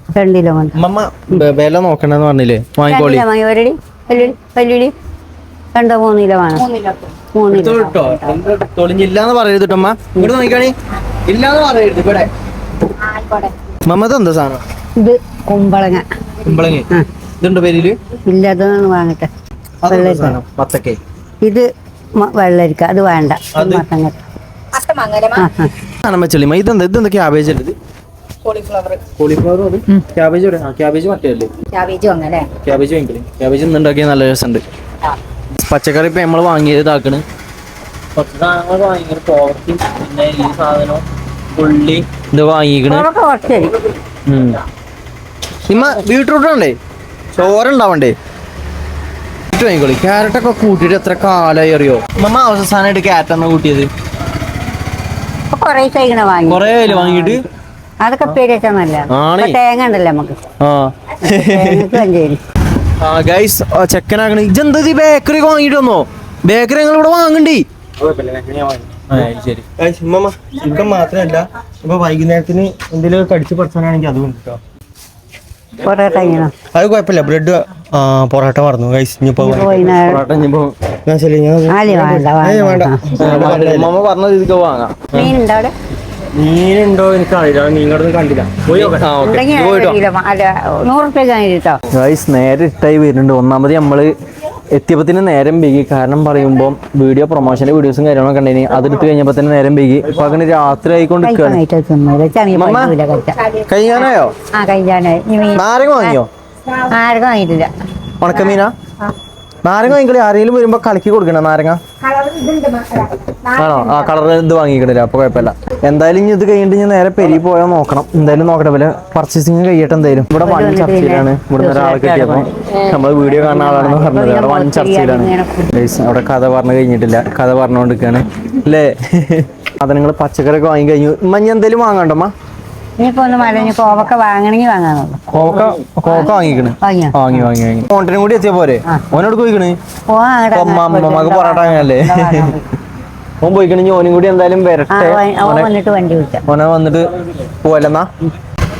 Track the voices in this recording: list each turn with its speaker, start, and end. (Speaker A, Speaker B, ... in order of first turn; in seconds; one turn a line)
Speaker A: 0.1-0.8
Speaker B: 0.8-3.2
Speaker A: 2.9-4.9
Speaker A: 5.7-6.6
Speaker C: 6.5-7.2
Speaker A: 7.3-8.4
Speaker B: 7.5-10.7
Speaker B: 11.3-12.3
Speaker C: 13.0-13.5
Speaker B: 13.8-14.6
Speaker A: 15.0-16.0
Speaker B: 16.4-16.9
Speaker B: 17.4-18.0
Speaker A: 18.3-19.3
Speaker B: 19.8-21.0
Speaker A: 19.9-20.4
Speaker A: 22.2-24.1
Speaker B: 23.5-23.8
Speaker C: 24.7-25.5
Speaker A: 25.4-25.7
Speaker B: 26.1-27.7
Speaker C: 28.4-29.0
Speaker B: 29.2-31.5
Speaker C: 31.7-32.5
Speaker B: 32.6-34.6
Speaker B: 35.5-37.2
Speaker B: 38.1-43.1
Speaker A: 42.9-43.7
Speaker B: 44.2-44.6
Speaker B: 45.7-46.8
Speaker B: 47.3-48.1
Speaker B: 49.5-53.9
Speaker A: 55.5-57.5
Speaker B: 56.5-57.4
Speaker A: 58.0-60.4
Speaker B: 59.1-59.6
Speaker B: 60.6-62.0
Speaker A: 61.2-62.4
Speaker B: 63.0-67.7
Speaker D: 68.0-69.3
Speaker B: 69.1-69.6
Speaker D: 69.8-74.6
Speaker A: 75.8-76.5
Speaker D: 76.1-80.0
Speaker A: 79.4-80.2
Speaker B: 79.9-80.7
Speaker D: 81.0-83.9
Speaker A: 81.7-83.0
Speaker B: 83.2-85.3
Speaker A: 85.1-85.7
Speaker D: 86.3-89.1
Speaker B: 88.7-90.0
Speaker A: 89.2-91.8
Speaker B: 91.9-94.2
Speaker B: 94.7-101.6
Speaker A: 101.2-103.4
Speaker B: 102.5-102.9
Speaker C: 103.3-104.1
Speaker B: 103.7-104.3
Speaker A: 104.5-106.2
Speaker B: 105.5-106.3
Speaker A: 106.9-107.7
Speaker B: 108.2-108.7
Speaker C: 108.3-109.1
Speaker B: 109.6-111.8
Speaker C: 112.0-114.2
Speaker B: 113.6-132.3
Speaker A: 120.4-122.5
Speaker A: 123.1-125.8
Speaker A: 133.0-135.2
Speaker B: 135.3-139.8
Speaker A: 136.1-137.5
Speaker A: 140.1-142.7
Speaker B: 140.5-142.5
Speaker B: 143.4-145.7
Speaker A: 144.9-146.4
Speaker B: 146.4-148.1